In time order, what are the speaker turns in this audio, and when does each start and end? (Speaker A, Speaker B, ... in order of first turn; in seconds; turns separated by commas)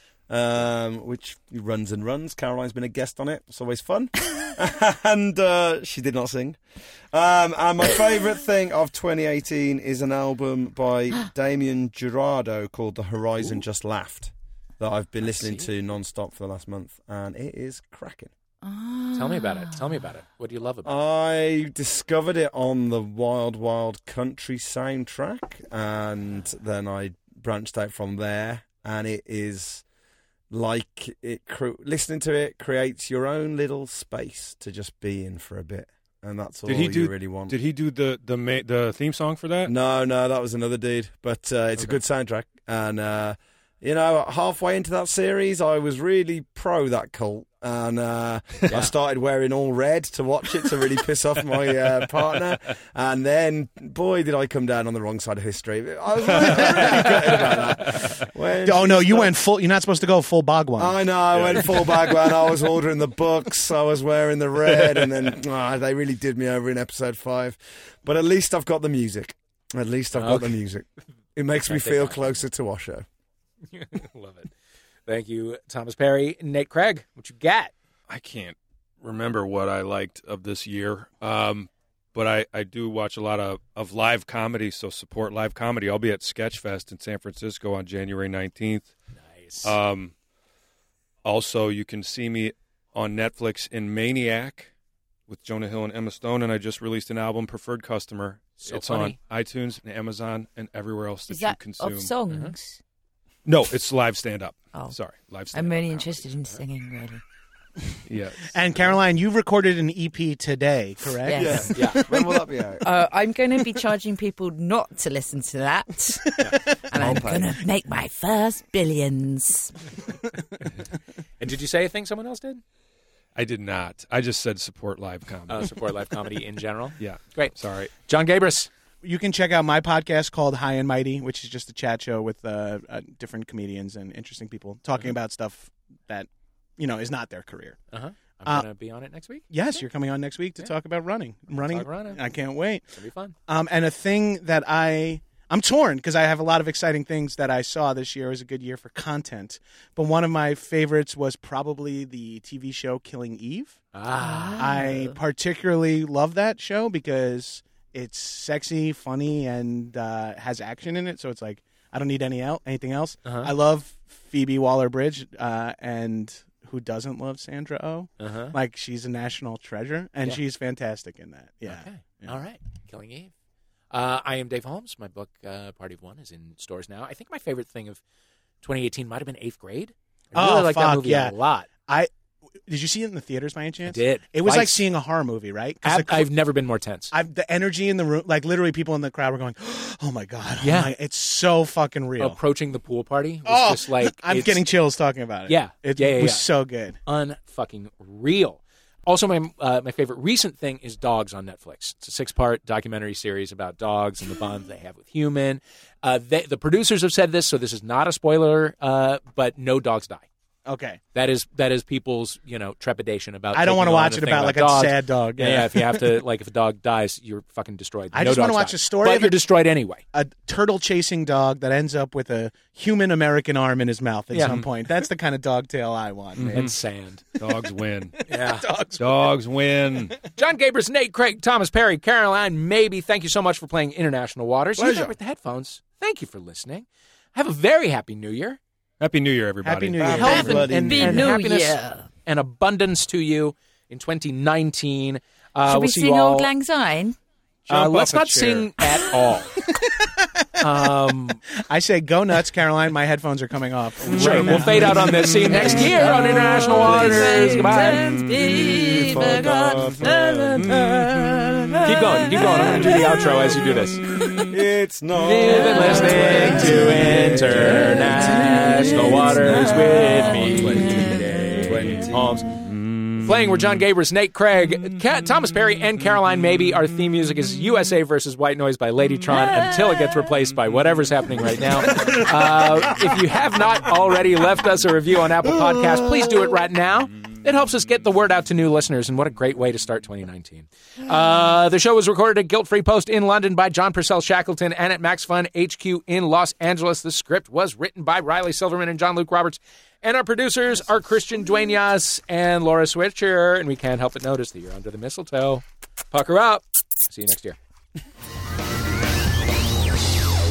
Speaker A: 0.3-6.6, Speaker A: 7.1-18.3, Speaker B: 15.2-15.7, Speaker C: 18.6-20.0, Speaker B: 19.1-21.0, Speaker A: 20.8-29.9, Speaker A: 30.5-37.6, Speaker D: 36.7-39.7, Speaker A: 39.6-59.4, Speaker E: 56.3-58.0, Speaker E: 58.6-61.0, Speaker A: 60.8-73.1, Speaker D: 61.3-62.0, Speaker B: 70.2-70.6, Speaker B: 71.5-72.4, Speaker B: 73.7-74.5, Speaker B: 75.1-77.7, Speaker D: 78.1-88.9, Speaker B: 89.3-89.8, Speaker D: 89.6-90.1, Speaker D: 91.2-94.7, Speaker D: 95.3-102.1, Speaker B: 98.6-99.2, Speaker C: 101.3-102.8, Speaker B: 102.3-102.5, Speaker D: 103.5-106.3, Speaker C: 105.5-107.2, Speaker D: 108.1-108.6, Speaker E: 108.5-112.4, Speaker C: 111.2-111.7, Speaker A: 111.3-112.9, Speaker B: 111.7-112.0, Speaker C: 112.8-116.3, Speaker C: 116.9-119.8, Speaker A: 117.0-117.6, Speaker B: 121.4-122.6, Speaker D: 123.3-125.9, Speaker B: 125.5-128.7, Speaker D: 127.0-127.9, Speaker E: 129.0-137.8, Speaker B: 137.9-139.5, Speaker E: 139.5-142.8, Speaker B: 141.7-142.2, Speaker B: 142.9-143.3, Speaker E: 143.5-153.8, Speaker B: 153.9-154.6, Speaker C: 154.2-155.1, Speaker E: 154.6-172.4, Speaker B: 163.2-163.5, Speaker B: 168.2-168.6, Speaker B: 171.7-173.3, Speaker B: 173.9-178.0, Speaker B: 178.6-181.7, Speaker E: 180.3-182.1, Speaker E: 182.7-186.3, Speaker B: 183.9-184.8, Speaker B: 185.8-187.1, Speaker E: 187.1-192.4, Speaker B: 190.6-190.9, Speaker B: 192.2-194.6, Speaker E: 193.5-197.0, Speaker B: 195.5-196.5, Speaker B: 197.1-210.3, Speaker E: 210.7-211.0, Speaker B: 211.1-220.0, Speaker E: 213.5-216.1, Speaker E: 218.1-219.4, Speaker E: 220.1-226.7, Speaker B: 224.3-224.6, Speaker D: 224.4-224.7, Speaker D: 226.3-226.8, Speaker B: 226.5-227.2, Speaker D: 227.4-228.2, Speaker B: 228.3-228.7, Speaker E: 228.3-229.0, Speaker D: 229.0-230.2, Speaker B: 230.3-238.6, Speaker A: 234.8-235.2, Speaker D: 239.0-240.0, Speaker E: 239.6-240.9, Speaker A: 240.0-241.3, Speaker B: 240.0-246.5, Speaker C: 240.2-242.1, Speaker C: 245.6-247.2, Speaker B: 247.7-249.5, Speaker D: 247.7-248.4, Speaker E: 248.4-248.7, Speaker E: 249.7-250.7, Speaker B: 250.6-251.4, Speaker E: 251.7-255.3, Speaker B: 254.1-258.1, Speaker C: 255.2-263.6, Speaker A: 258.7-260.1, Speaker B: 261.8-264.0, Speaker C: 264.2-264.5, Speaker A: 264.4-272.4, Speaker B: 265.2-271.0, Speaker C: 265.6-266.9, Speaker C: 268.2-270.2, Speaker B: 271.9-272.4, Speaker B: 273.2-307.6